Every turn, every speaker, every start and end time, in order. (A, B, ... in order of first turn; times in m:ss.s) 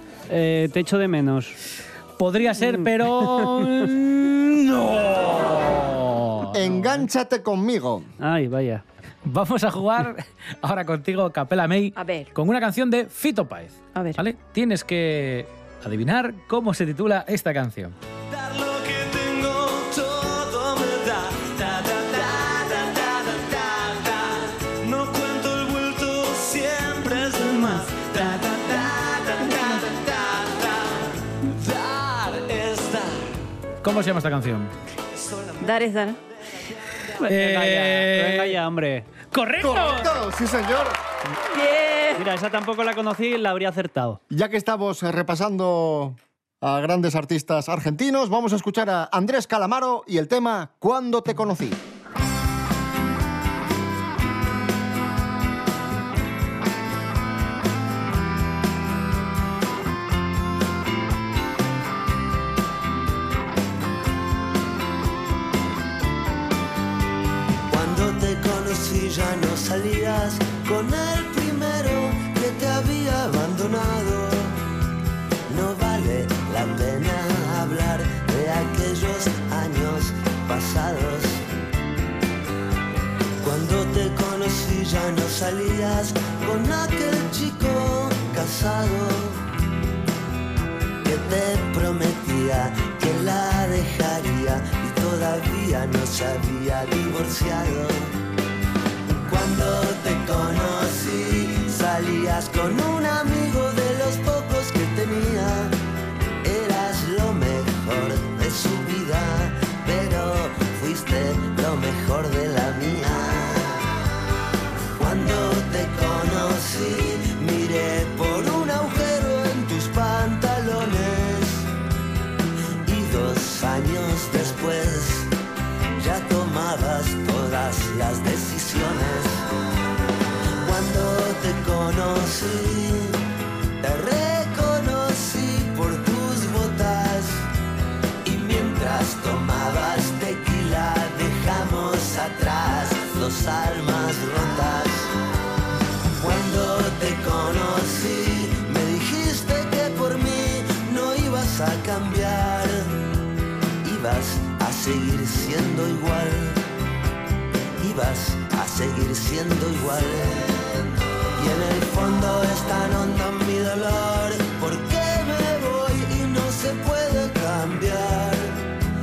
0:00.3-0:01.6 A
0:02.2-0:06.9 B
0:02.6-0:03.7 A
0:06.5-0:08.1 C
0:08.2-0:08.8 A
0:09.2-0:17.9 B
0:11.9-0:12.3 D
0:13.9-0:14.2 D
0:18.3-0:30.9 E
0:31.4-0:33.2 E
0:33.8-0:34.7 B
0:35.6-0:36.2 D
0:37.2-0:39.1 A
0:37.2-0:38.6 B
0:39.3-0:40.1 B
0:39.6-0:41.0 C
0:41.5-0:42.2 D
0:42.2-0:44.2 A
0:44.3-0:51.8 C
1:07.7-1:14.6 E
1:15.5-1:21.4 E
1:23.4-1:29.4 E
1:31.0-1:38.1 E
1:39.2-1:45.7 E
1:46.4-1:53.8 E
1:55.0-2:01.7 E
2:02.8-2:05.3 E
2:05.9-2:09.4 E
2:10.6-2:13.2 E
2:13.8-2:17.4 E
2:18.2-2:25.1 E
2:26.1-2:33.0 E
2:33.8-2:36.6 E
2:37.8-2:40.6 E
2:41.3-2:48.6 E